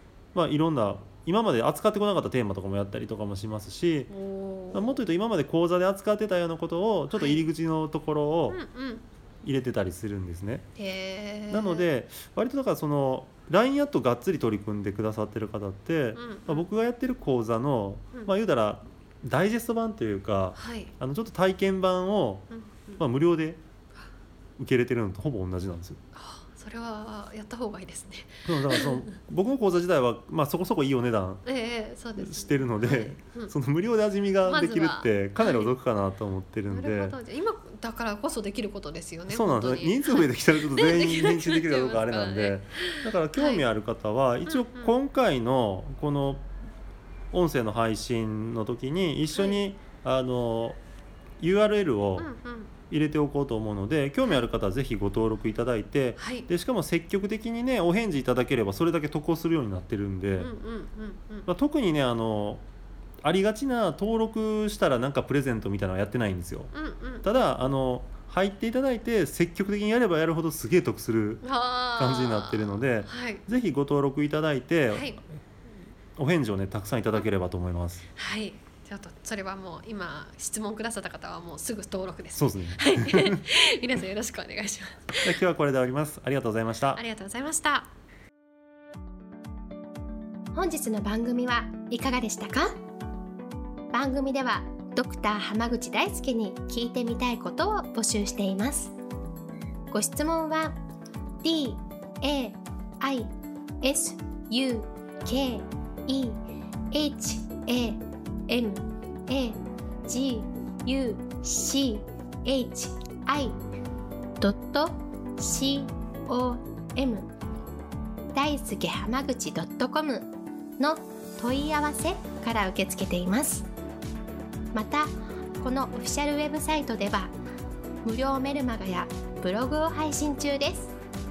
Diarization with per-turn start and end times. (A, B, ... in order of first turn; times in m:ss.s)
0:00.3-0:04.1 A
0:04.1-0:05.0 B
0:04.7-0:08.6 A
0:07.1-0:07.4 B
0:08.5-0:09.0 B
0:09.4-0:10.6 A
0:10.8-0:11.9 B
0:11.5-0:22.4 A
0:16.2-0:16.7 B
0:20.5-0:20.9 B
0:22.5-0:23.0 B
0:23.0-0:23.6 A
0:24.6-0:26.0 A
0:26.1-0:29.2 B
0:28.4-0:31.4 A
0:31.4-0:33.5 B
0:32.2-0:37.2 A
0:34.4-0:35.7 B
0:36.7-0:43.6 B
0:39.3-0:46.4 A
0:44.4-0:45.0 B
0:47.3-0:50.8 A
0:49.3-0:49.7 B
0:51.4-0:52.3 A
0:52.2-0:52.7 B
0:52.9-1:00.5 A
0:56.2-0:56.5 B
1:00.4-1:01.5 B
1:01.5-1:02.6 A
1:03.2-1:06.7 A
1:06.7-1:07.2 B
1:07.2-1:15.2 A
1:11.4-1:13.4 B
1:14.9-1:15.2 B
1:16.2-1:18.0 A
1:18.2-1:25.4 B
1:22.3-1:23.4 A
1:25.2-1:27.0 A
1:26.9-1:27.9 B
1:30.5-1:32.7 C
1:33.9-1:38.9 C
1:39.9-1:40.8 C
1:41.4-1:46.4 C
1:46.9-1:53.6 C
1:54.4-1:57.3 C
1:58.3-2:03.7 C
2:04.7-2:07.3 C
2:08.0-2:10.9 C